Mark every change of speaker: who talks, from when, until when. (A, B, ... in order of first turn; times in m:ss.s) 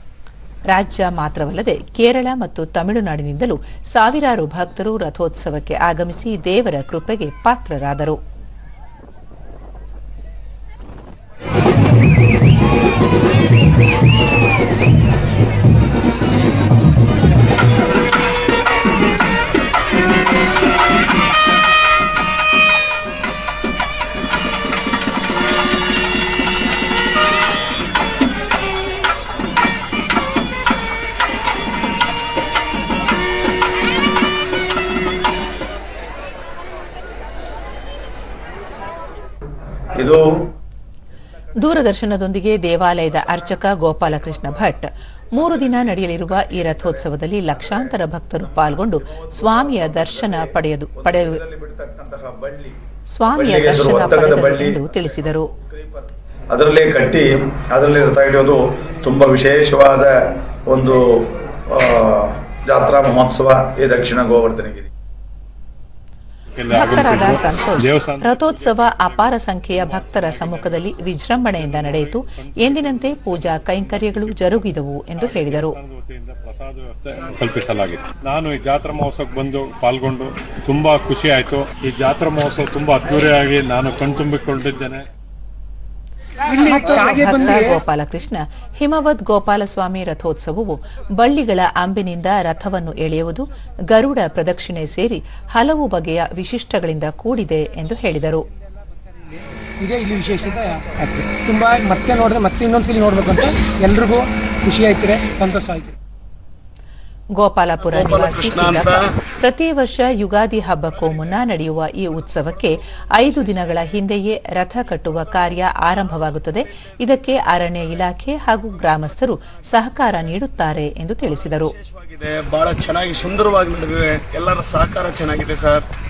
0:00.7-0:08.2 A
0:40.0-0:40.4 B
0:41.6-0:51.4 A
0:45.4-0:48.1 B
0:48.6-0:52.8 B
0:53.1-0:55.5 A
0:53.3-1:04.9 B
1:06.5-1:25.0 C
1:06.7-1:15.8 A
1:26.4-1:27.8 D
1:26.6-1:38.4 A
1:39.8-1:45.9 D
1:47.4-2:01.7 A
1:47.9-1:49.1 E
2:01.8-2:05.8 E